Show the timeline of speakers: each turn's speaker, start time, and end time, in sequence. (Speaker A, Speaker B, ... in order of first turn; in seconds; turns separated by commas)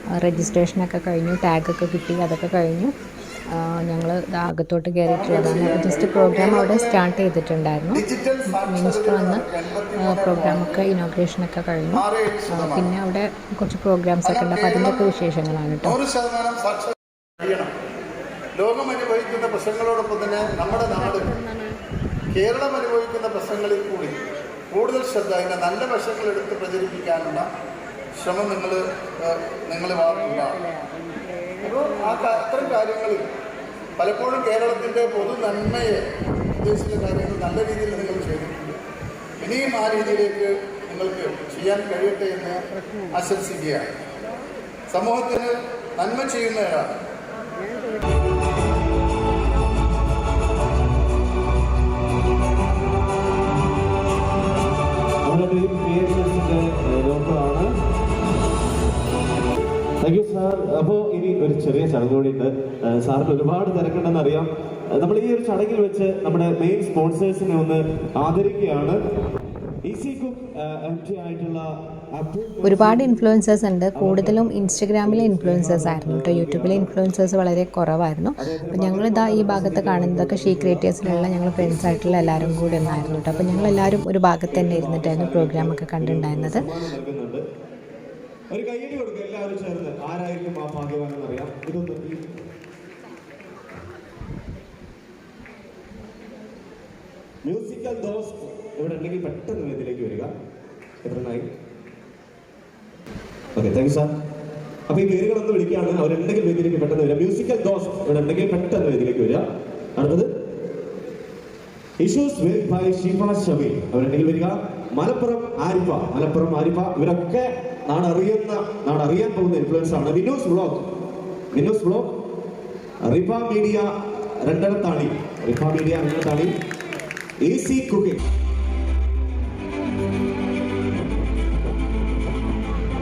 Speaker A: 0.2-2.9, Speaker A: 3.5-9.5, Speaker B: 5.1-7.0, Speaker B: 7.9-10.8, Speaker A: 10.0-16.0, Speaker B: 11.9-12.9, Speaker B: 14.2-15.0, Speaker B: 15.8-17.7, Speaker B: 18.5-21.3, Speaker B: 22.3-27.5, Speaker B: 28.1-30.6, Speaker B: 31.6-33.3, Speaker B: 34.0-36.1, Speaker B: 36.6-38.8, Speaker B: 39.4-43.9, Speaker B: 44.9-46.9, Speaker C: 55.3-57.7, Speaker C: 60.0-69.0, Speaker C: 69.8-73.1, Speaker A: 72.6-86.6, Speaker C: 74.0-76.9, Speaker C: 78.4-84.0, Speaker C: 84.5-87.5, Speaker C: 88.5-92.2, Speaker C: 97.5-100.3, Speaker C: 101.0-101.5, Speaker C: 103.6-104.1, Speaker C: 104.9-109.5, Speaker C: 110.0-110.3, Speaker C: 112.0-120.9, Speaker C: 121.5-122.1, Speaker C: 123.0-126.5, Speaker C: 127.4-128.2